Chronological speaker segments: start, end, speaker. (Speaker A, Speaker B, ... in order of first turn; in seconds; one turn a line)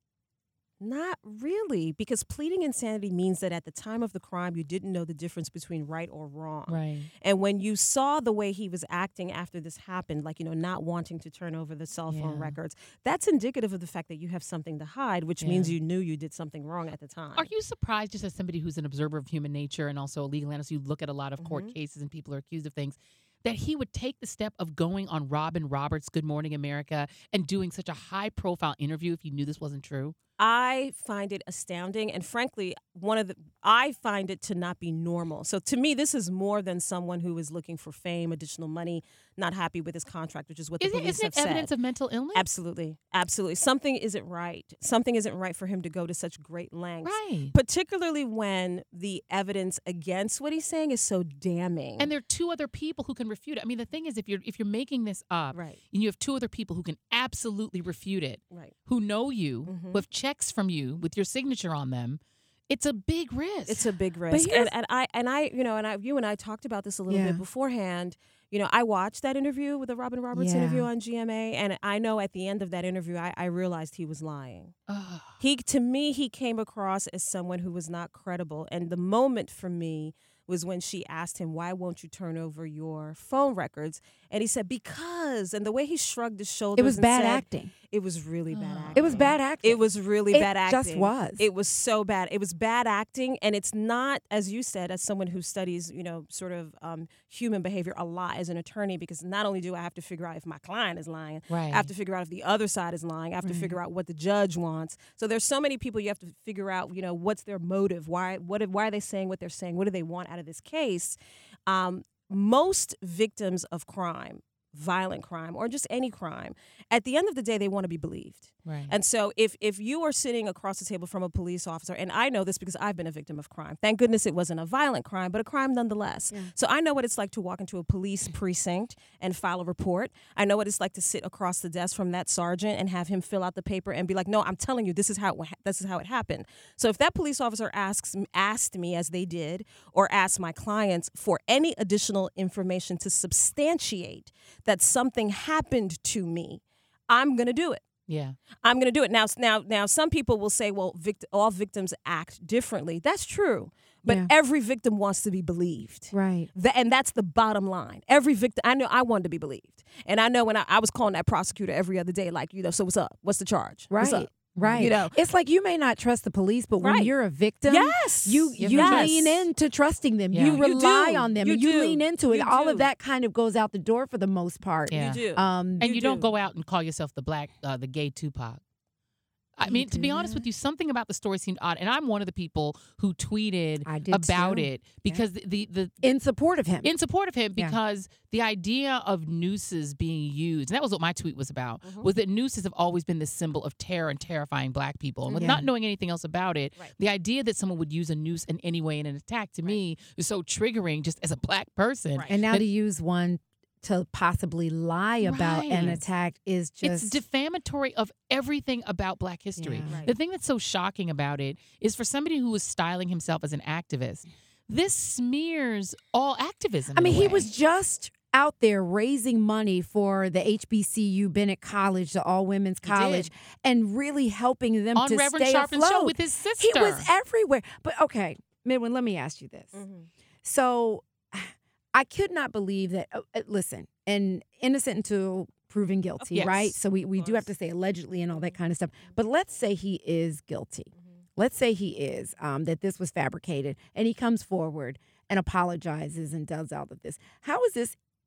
Speaker A: 0.8-17.5
Speaker B: 6.7-7.1
Speaker B: 12.1-12.6
Speaker B: 15.4-15.8
Speaker B: 17.4-30.2
Speaker A: 21.4-21.7
Speaker A: 30.4-41.7
Speaker B: 40.8-42.5
Speaker A: 42.3-52.1
Speaker B: 47.0-47.5
Speaker B: 52.0-63.9
Speaker A: 55.5-55.8
Speaker A: 59.7-60.0
Speaker A: 63.7-74.8
Speaker C: 64.3-64.7
Speaker C: 67.1-67.4
Speaker C: 70.3-70.9
Speaker B: 74.9-75.4
Speaker A: 75.4-111.2
Speaker C: 86.8-87.7
Speaker B: 88.5-89.3
Speaker C: 89.0-91.4
Speaker B: 101.5-101.9
Speaker C: 103.4-103.8
Speaker A: 111.7-147.8
Speaker B: 118.7-118.9
Speaker B: 148.1-148.4
Speaker A: 148.6-165.2
Speaker C: 156.1-156.5
Speaker C: 163.9-175.9
Speaker B: 164.6-164.9
Speaker A: 166.8-167.1
Speaker A: 167.7-169.4
Speaker B: 168.6-169.3
Speaker B: 170.3-170.6
Speaker A: 170.6-172.9
Speaker B: 174.9-175.3
Speaker A: 174.9-176.3
Speaker B: 175.8-178.6
Speaker B: 179.6-186.0
Speaker C: 179.6-180.5
Speaker C: 183.8-185.2
Speaker C: 186.0-186.9
Speaker B: 186.8-202.7
Speaker A: 191.8-192.1
Speaker A: 195.3-195.6
Speaker C: 195.3-195.7
Speaker C: 202.3-207.2
Speaker B: 205.2-206.0
Speaker B: 206.8-217.5
Speaker C: 209.6-210.0
Speaker A: 209.9-210.2
Speaker C: 216.9-229.8
Speaker B: 222.8-223.3
Speaker B: 224.9-227.1
Speaker A: 229.7-230.1
Speaker C: 230.4-248.0
Speaker A: 236.2-237.5
Speaker B: 236.3-236.7